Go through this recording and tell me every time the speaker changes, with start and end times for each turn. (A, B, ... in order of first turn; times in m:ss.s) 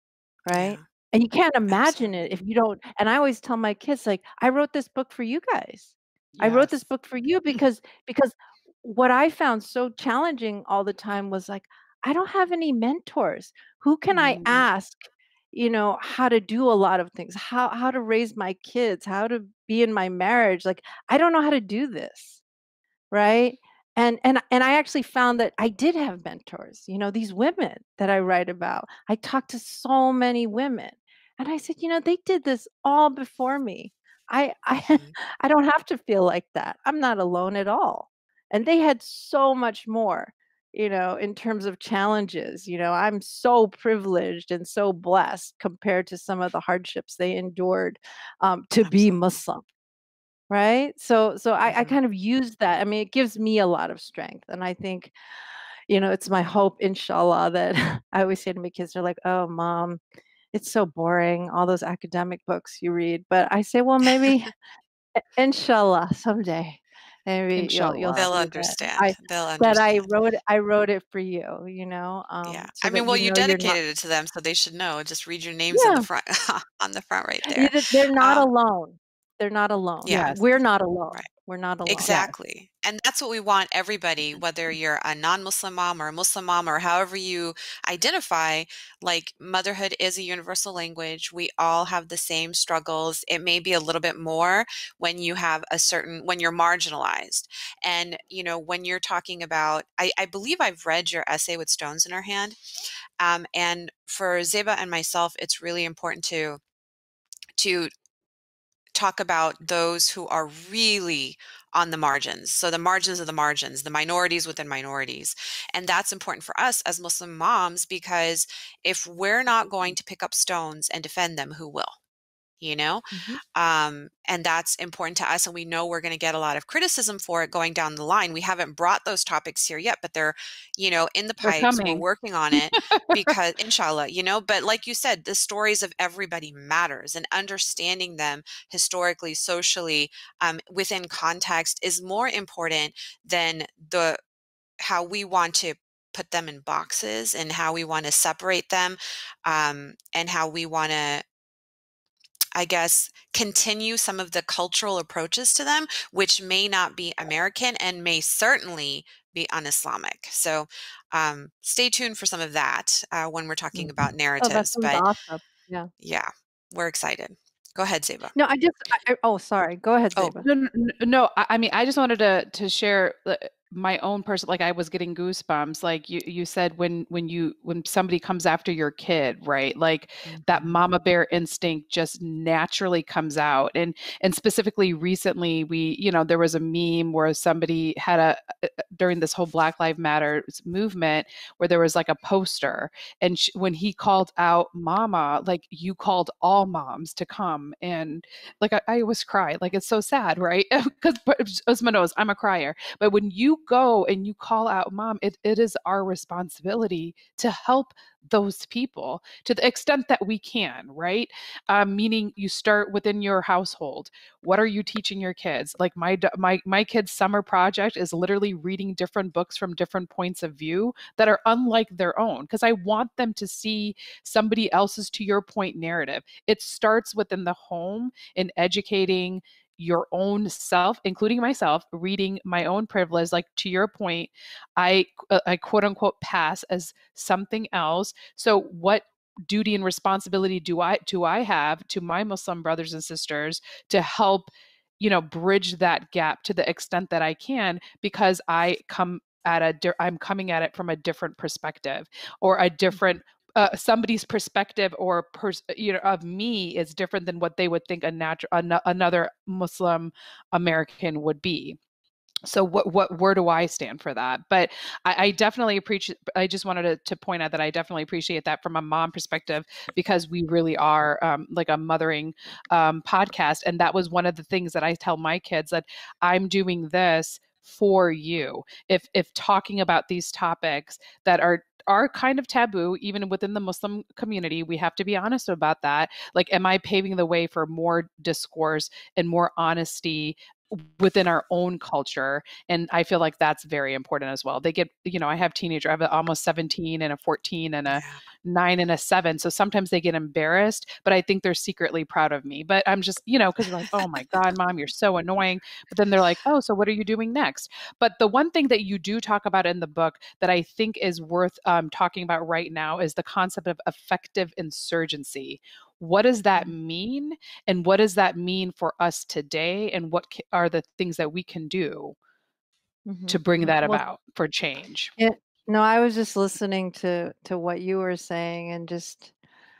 0:00.4-0:22.4 A
0:00.5-0:00.8 B
0:01.7-0:02.1 B
0:06.4-0:06.7 C
0:14.1-0:14.6 C
0:23.1-0:49.6 A
0:48.8-0:49.2 B
0:50.5-0:55.1 A
0:51.7-0:52.0 B
0:55.9-1:00.0 A
1:00.5-1:04.5 A
1:05.2-1:13.8 A
1:07.5-1:08.3 C
1:08.1-1:10.0 B
1:12.4-1:18.5 B
1:15.7-1:16.1 A
1:17.5-1:22.3 A
1:20.0-1:20.3 B
1:20.1-1:20.4 C
1:21.9-1:42.6 B
1:22.0-1:22.3 C
1:43.2-1:46.6 B
1:47.6-1:47.9 B
1:48.9-2:02.0 B
2:02.6-2:24.2 B
2:03.1-2:03.4 A
2:11.4-2:13.1 C
2:24.8-2:31.2 B
2:32.5-2:45.0 B
2:43.7-2:45.9 A
2:46.0-2:48.3 B
2:48.3-2:50.4 A
2:50.2-4:21.8 C
3:00.3-3:00.6 B
4:22.4-5:22.2 C
4:57.9-4:58.2 B
5:23.0-5:24.0 A
5:23.3-5:25.1 C
5:25.2-5:29.3 A